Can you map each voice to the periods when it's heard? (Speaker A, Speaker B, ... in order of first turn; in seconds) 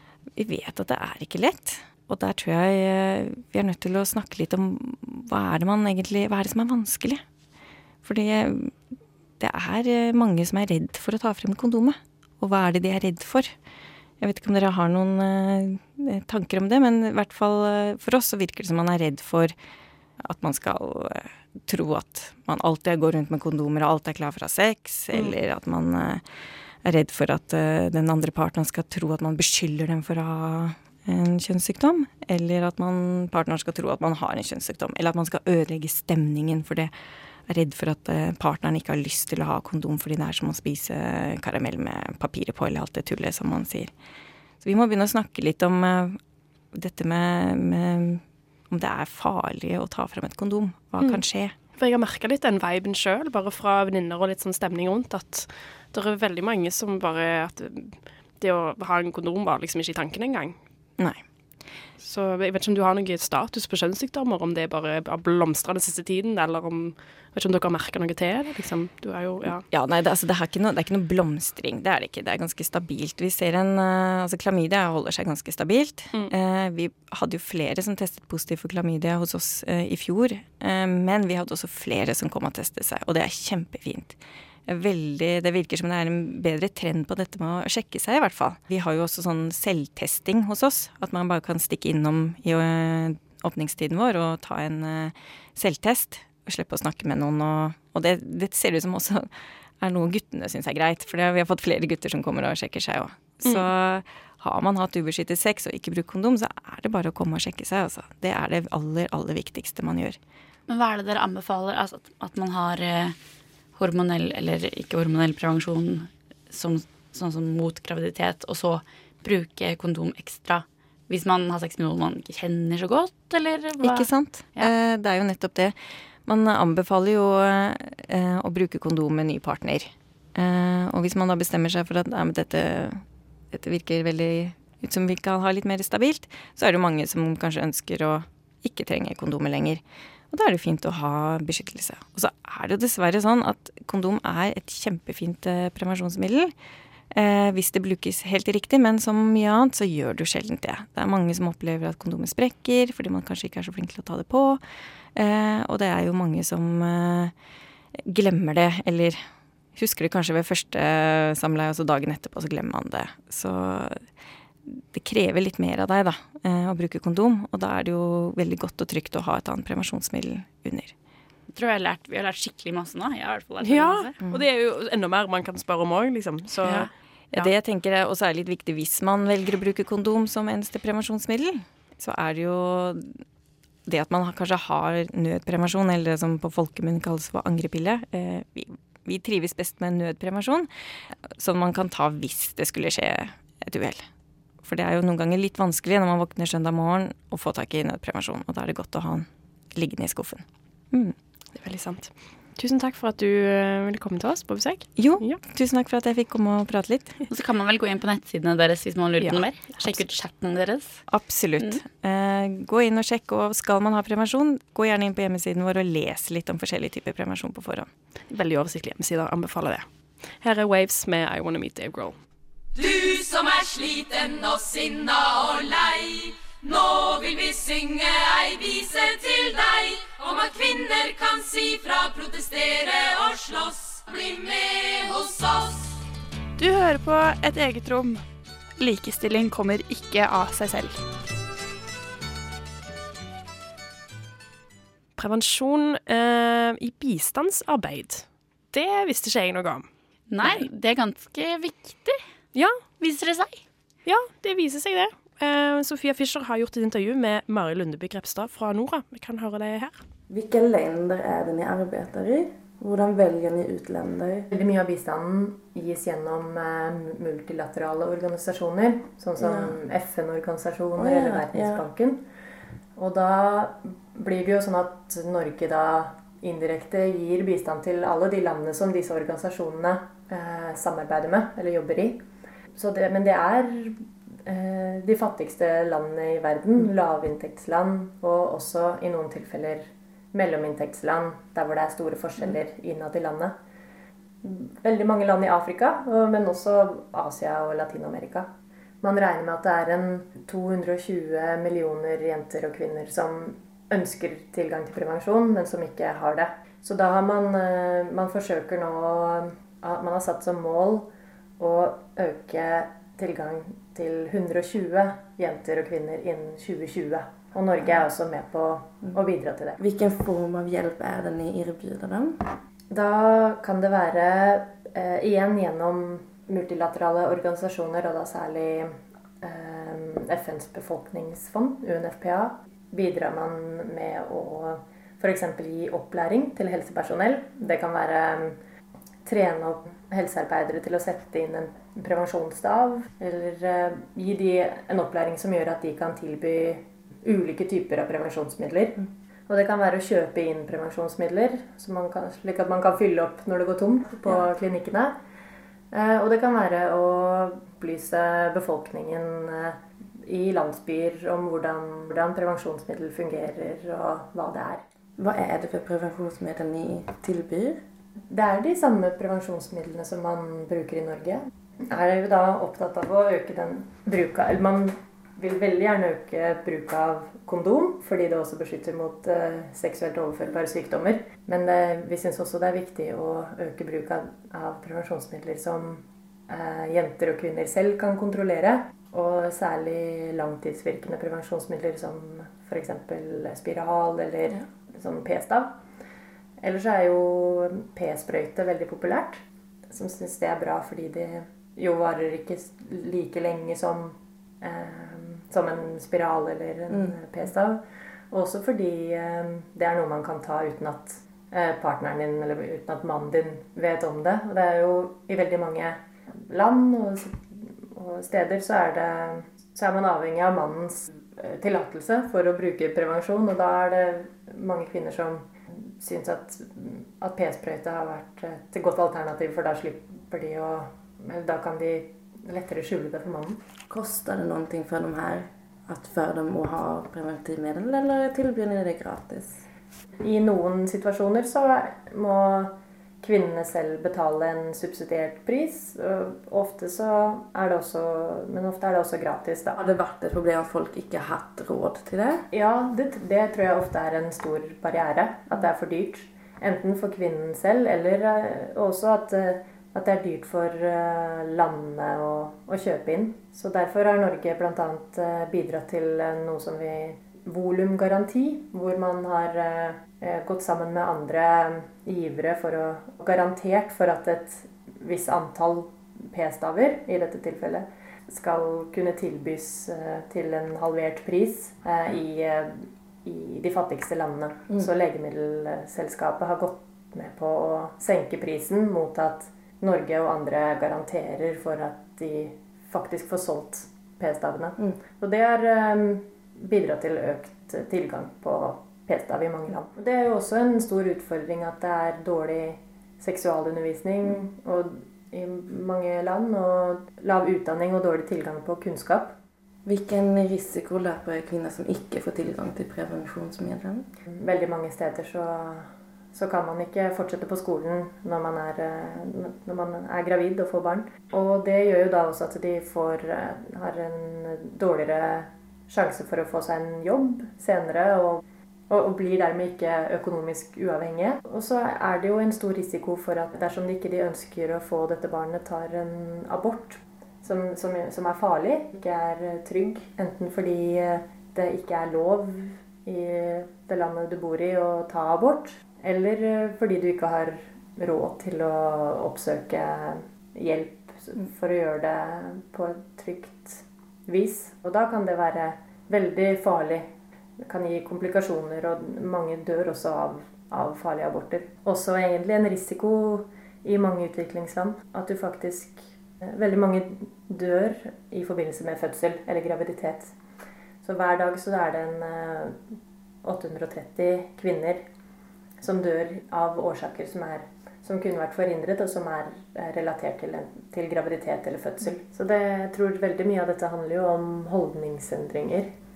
Speaker A: 0.3-7.2, 8.0-8.7, 9.4-13.5, 14.2-19.5, 20.2-26.2, 26.8-36.9, 37.5-43.9, 44.6-46.2, 46.7-51.5, 61.0-61.2, 69.7-99.3, 99.8-110.2, 123.8-125.7, 126.2-146.5, 147.1-154.6, 155.1-157.3, 158.0-159.2, 159.8-164.0, 164.6-170.9, 177.3-183.2, 183.8-190.7, 191.3-194.1, 194.6-201.2, 205.0-207.1, 211.1-217.9
Speaker B: 51.8-60.6, 62.0-69.6, 173.6-177.5, 201.6-205.4, 218.3-219.8, 220.4-222.2, 245.2-249.9, 250.4-250.7, 252.5-252.8, 254.1-260.0
Speaker C: 110.7-113.2, 113.8-124.7, 171.5-174.1, 176.6-176.9, 207.3-211.0, 250.3-252.2, 253.0-253.6
Speaker D: 222.8-226.1, 227.4-228.5, 229.5-230.0, 231.0-232.6, 234.1-235.6
Speaker E: 260.3-264.5, 269.4-269.8, 270.9-271.8, 319.8-322.5, 365.2-367.8, 433.9-439.6, 449.8-452.4, 509.8-514.0
Speaker F: 264.5-272.2, 272.9-282.2, 282.7-293.6, 294.4-298.5, 299.0-319.8, 322.9-338.6, 339.2-355.1, 355.9-364.8, 368.3-395.8, 396.6-433.6, 440.2-449.8, 452.5-509.4, 514.4-570.3, 571.0-572.8, 573.4-575.0, 575.8-585.9